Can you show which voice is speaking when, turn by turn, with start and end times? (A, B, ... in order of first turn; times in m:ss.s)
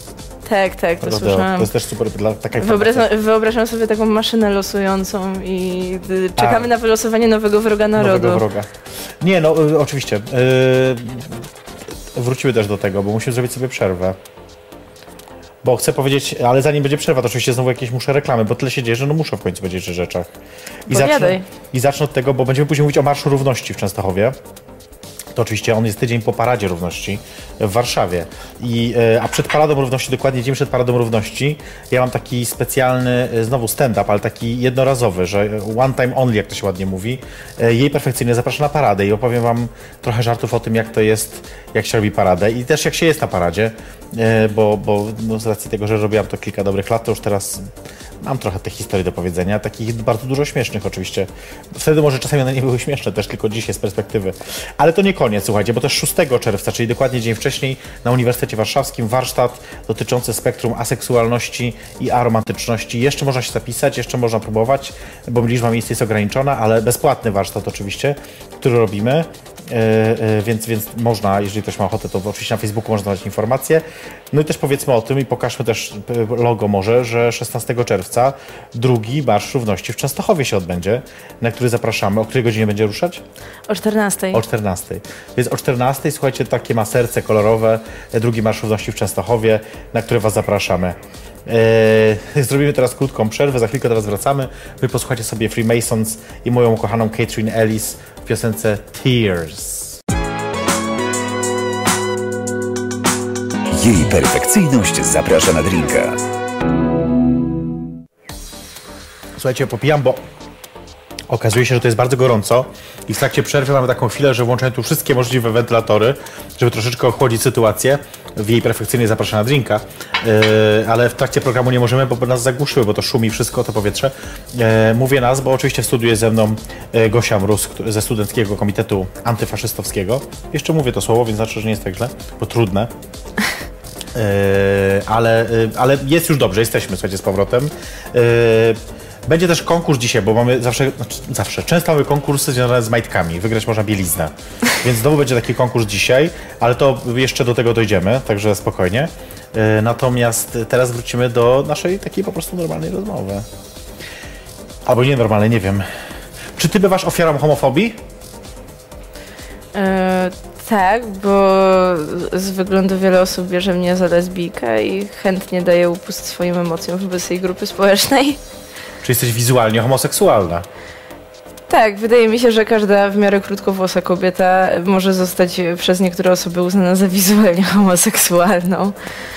0:00.5-0:01.7 A
0:01.0-0:03.1 B
0:02.6-0:08.4 A
0:06.4-0:06.7 B
0:08.0-0:11.4 B
0:12.1-0:14.2 B
0:15.6-0:20.3 B
0:20.9-0:21.4 A
0:20.9-0:24.4 B
0:25.4-1:23.2 B
1:23.7-1:24.4 A
1:24.3-1:40.0 B
1:43.7-1:46.2 C
1:49.4-1:50.2 B
1:51.3-2:12.9 B
2:14.1-2:33.5 B
2:34.9-2:35.9 B
2:36.6-2:38.0 B
2:39.8-2:48.4 A
2:49.0-2:50.7 B
2:51.7-2:59.0 A